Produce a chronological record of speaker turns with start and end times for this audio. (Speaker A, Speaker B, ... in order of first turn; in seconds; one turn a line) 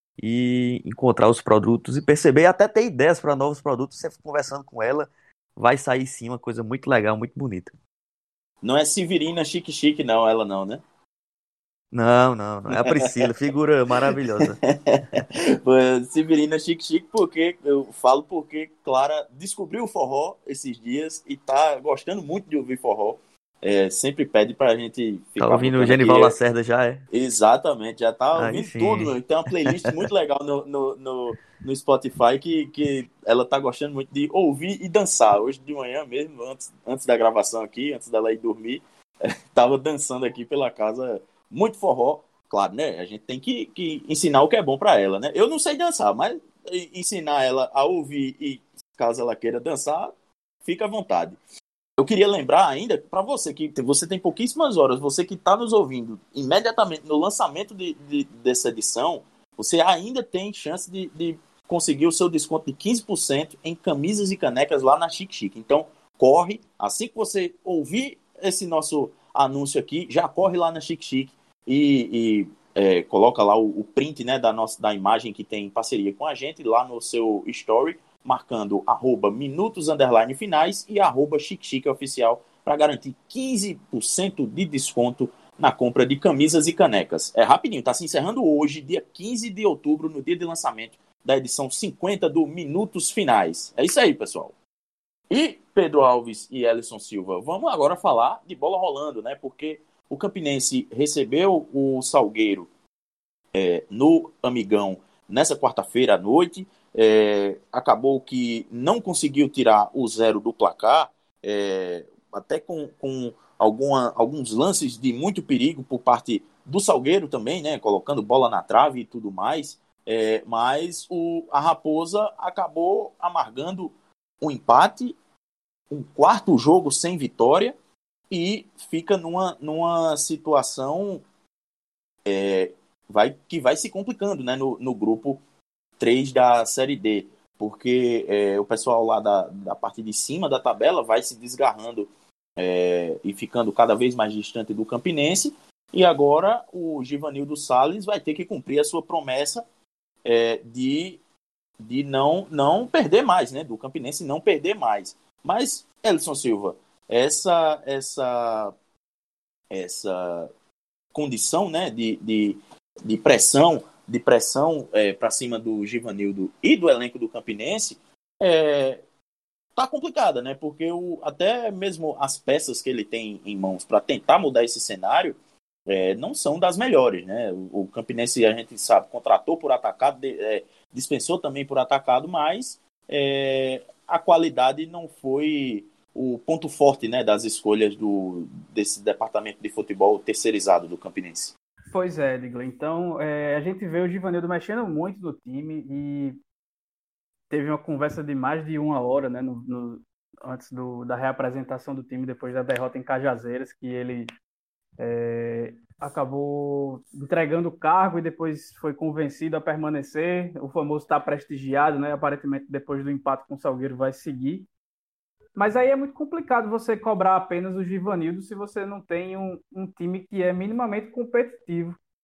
Speaker A: 0.2-7.7
Speaker B: 8.6-10.8
Speaker A: 11.9-14.6
Speaker B: 12.7-13.3
Speaker B: 14.1-26.4
Speaker A: 25.4-27.0
Speaker B: 27.1-50.1
Speaker A: 28.3-30.1
Speaker B: 50.6-51.4
Speaker B: 52.0-94.5
Speaker B: 95.3-102.7
Speaker B: 103.5-125.2
Speaker B: 125.9-127.7
Speaker B: 128.3-131.2
Speaker B: 132.2-135.4
Speaker B: 136.0-149.6
Speaker B: 150.2-151.2
Speaker B: 151.8-158.7
Speaker B: 159.7-160.5
Speaker B: 161.1-169.0
Speaker B: 169.8-191.5
Speaker C: 191.9-196.4
Speaker C: 197.5-204.3
Speaker C: 205.0-214.7
Speaker C: 215.6-222.0